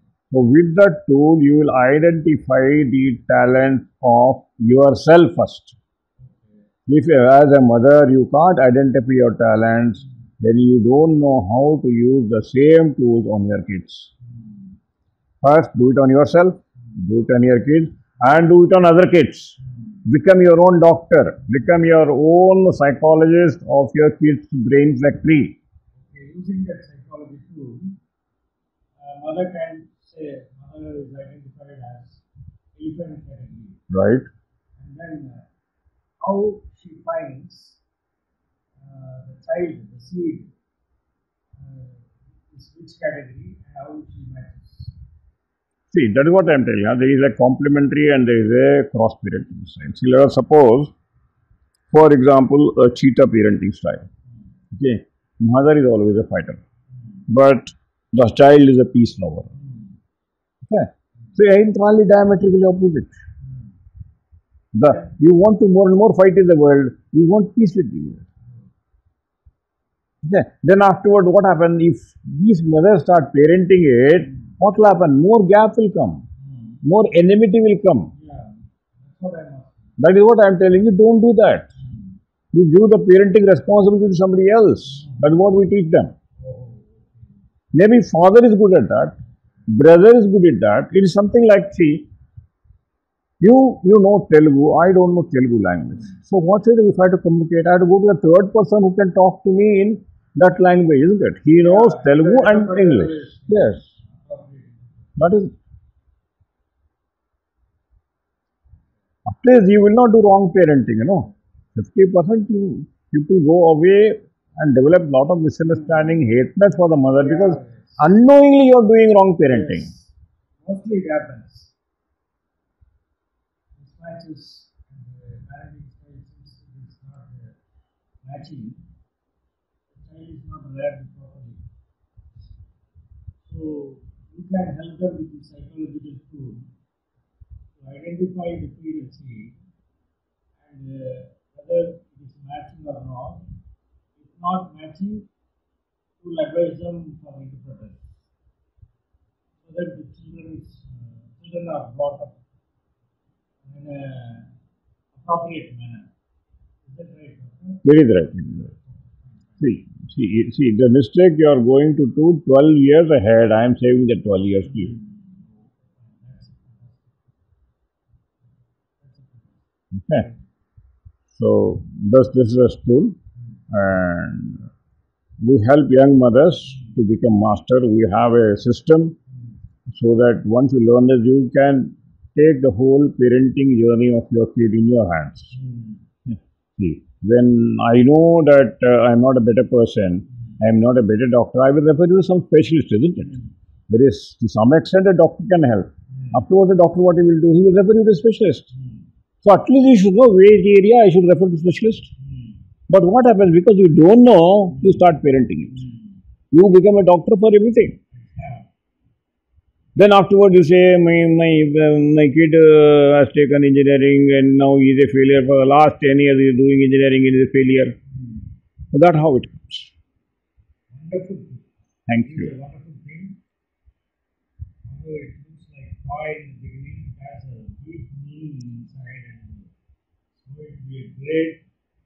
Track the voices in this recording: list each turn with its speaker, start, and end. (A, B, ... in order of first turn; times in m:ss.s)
0:00.3-0:05.8 A
0:06.2-0:06.5 B
0:06.9-0:14.1 A
0:15.4-0:25.6 A
0:26.0-0:28.0 B
0:29.0-0:32.2 B
0:32.8-0:33.8 B
0:33.9-0:34.2 A
0:34.8-0:35.4 B
0:36.2-0:37.8 B
0:38.8-0:40.5 B
0:41.6-0:45.0 B
0:45.9-0:50.9 A
0:51.9-0:54.0 A
0:54.7-0:56.6 A
0:57.3-0:59.5 A
0:59.6-0:59.9 B
1:00.7-1:03.2 A
1:04.7-1:08.2 A
1:10.2-1:16.2 A
1:16.4-1:16.8 B
1:16.8-1:18.1 A
1:18.1-1:19.9 B
1:20.0-1:21.7 A
1:22.5-1:26.1 A
1:26.4-1:27.1 B
1:27.7-1:29.1 A
1:29.7-1:32.1 A
1:33.4-1:43.8 A
1:41.6-1:45.2 B
1:45.2-1:45.5 A
1:49.3-1:59.9 A
1:57.2-1:58.0 B
1:59.5-2:00.1 B
2:00.6-2:01.7 B
2:03.8-2:07.6 B
2:08.2-2:08.8 B
2:09.9-2:11.6 B
2:13.4-2:16.6 B
2:17.8-2:19.6 B
2:20.6-2:23.4 B
2:24.2-2:25.3 B
2:26.2-2:28.0 B
2:29.6-2:32.4 B
2:33.7-2:34.5 B
2:35.2-2:36.1 B
2:36.8-2:37.8 B
2:37.8-2:38.7 A
2:38.6-2:39.6 B
2:39.6-2:45.0 A
2:44.9-2:47.2 B
2:49.0-2:49.6 B
2:51.4-2:53.2 A
2:53.7-2:54.6 A
2:55.4-2:59.2 A
2:59.9-3:05.6 A
3:05.6-3:05.9 B
3:06.8-3:13.4 A
3:13.9-3:18.7 A
3:19.4-3:22.1 A
3:22.9-3:25.9 A
3:26.5-3:28.0 A
3:28.2-3:28.6 B
3:30.0-3:38.0 A
3:38.9-3:39.9 A
3:40.9-3:41.6 B
3:42.1-3:42.5 A
3:42.2-3:43.4 B
3:44.9-3:49.7 B
3:50.4-3:51.6 B